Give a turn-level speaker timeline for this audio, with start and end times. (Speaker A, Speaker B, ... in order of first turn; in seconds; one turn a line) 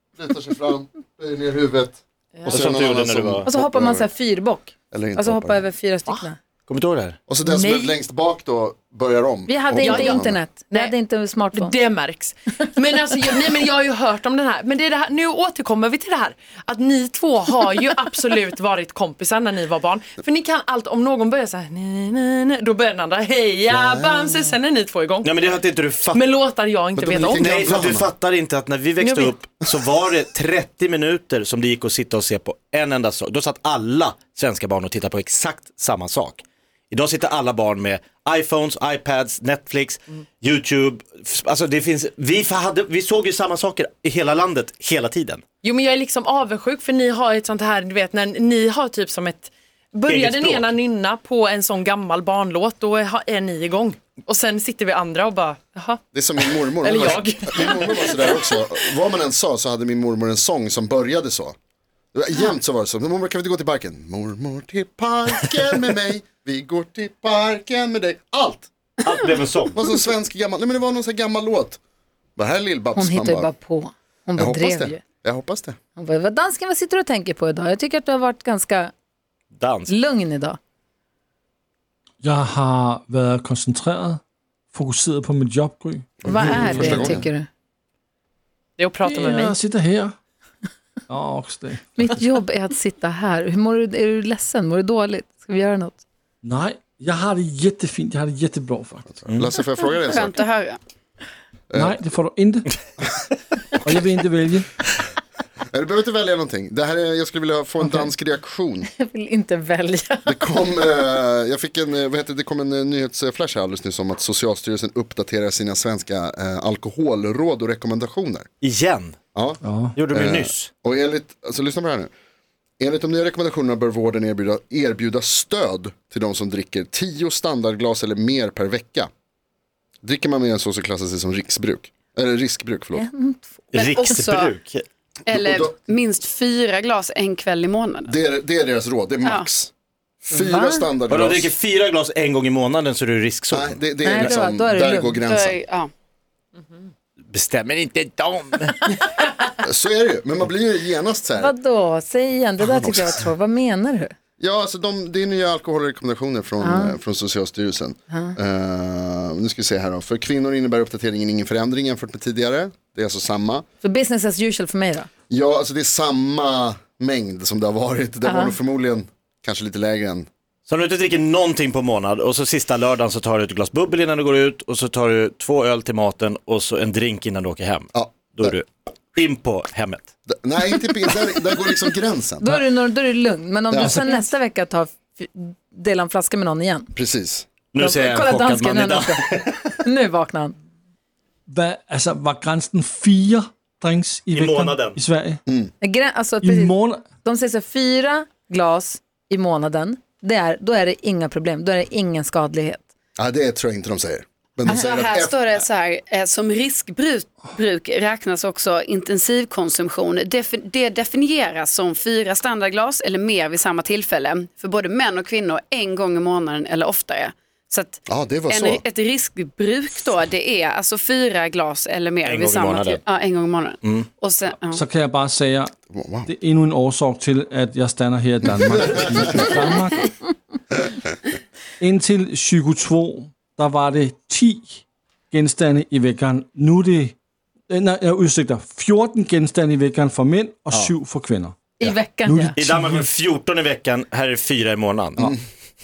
Speaker A: 0.2-4.1
Speaker B: 2.5-3.5
Speaker C: 3.5-6.4
Speaker A: 4.9-5.7
Speaker B: 6.7-7.2
Speaker A: 7.3-10.4
Speaker D: 7.4-8.0
Speaker C: 9.5-11.8
Speaker D: 9.8-10.9
Speaker D: 11.5-25.6
Speaker A: 23.7-24.3
Speaker B: 25.2-26.2
Speaker D: 26.1-27.7
Speaker A: 27.0-28.1
Speaker B: 27.4-45.4
Speaker D: 29.0-29.4
Speaker D: 45.6-58.6
Speaker B: 50.1-50.7
Speaker A: 56.1-61.5
Speaker A: 62.1-68.7
Speaker B: 69.0-69.8
Speaker A: 69.7-71.8
Speaker A: 72.4-73.5
Speaker C: 73.0-75.0
Speaker A: 74.4-75.8
Speaker C: 76.0-78.9
Speaker B: 79.5-79.9
Speaker C: 79.9-80.6
Speaker E: 82.2-84.2
Speaker E: 84.7-87.2
Speaker A: 86.2-87.2
Speaker C: 86.2-87.5
Speaker D: 88.8-89.6
Speaker E: 89.0-90.2
Speaker E: 91.1-92.2
Speaker C: 92.0-96.0
Speaker E: 96.4-99.1
Speaker A: 99.2-100.4
Speaker F: 100.1-100.8
Speaker A: 101.7-102.0
Speaker E: 101.8-102.7
Speaker E: 103.8-104.7
Speaker A: 105.7-108.9
Speaker C: 109.0-110.6
Speaker A: 110.3-118.5
Speaker B: 118.6-119.2
Speaker E: 119.6-120.0
Speaker B: 120.0-120.7
Speaker A: 120.1-122.1
Speaker A: 122.8-129.1
Speaker A: 130.0-133.1
Speaker C: 132.9-133.6
Speaker B: 133.7-134.8
Speaker F: 133.7-134.5
Speaker F: 135.3-138.1
Speaker A: 135.3-135.8
Speaker A: 138.1-139.7
Speaker A: 140.2-141.6
Speaker C: 140.3-140.9
Speaker B: 141.1-144.4
Speaker A: 143.5-145.6
Speaker C: 144.0-145.2
Speaker F: 145.2-145.9
Speaker B: 147.3-149.0
Speaker A: 149.6-151.5
Speaker C: 151.4-154.1
Speaker A: 152.6-153.2
Speaker A: 154.4-163.7
Speaker C: 156.6-157.0
Speaker C: 158.1-158.3
Speaker C: 163.8-165.1
Speaker A: 165.3-170.3
Speaker C: 168.2-168.6
Speaker B: 170.7-180.1
Speaker A: 177.9-178.5
Speaker A: 180.3-182.5
Speaker C: 182.4-186.9
Speaker A: 183.7-184.2
Speaker A: 186.9-187.5
Speaker B: 187.7-189.8
Speaker C: 187.8-189.2
Speaker C: 189.8-190.6
Speaker E: 191.5-195.4
Speaker B: 194.3-195.0
Speaker A: 195.5-195.7
Speaker C: 195.8-202.8
Speaker E: 196.4-197.1
Speaker A: 203.2-205.4
Speaker F: 204.7-224.8
Speaker A: 218.1-218.8
Speaker B: 222.2-223.0
Speaker E: 224.7-225.7
Speaker A: 225.9-226.3
Speaker E: 226.3-230.1
Speaker A: 228.7-229.0
Speaker E: 231.8-237.2
Speaker E: 237.7-241.6
Speaker C: 241.8-242.6
Speaker E: 242.2-243.1
Speaker B: 242.6-245.3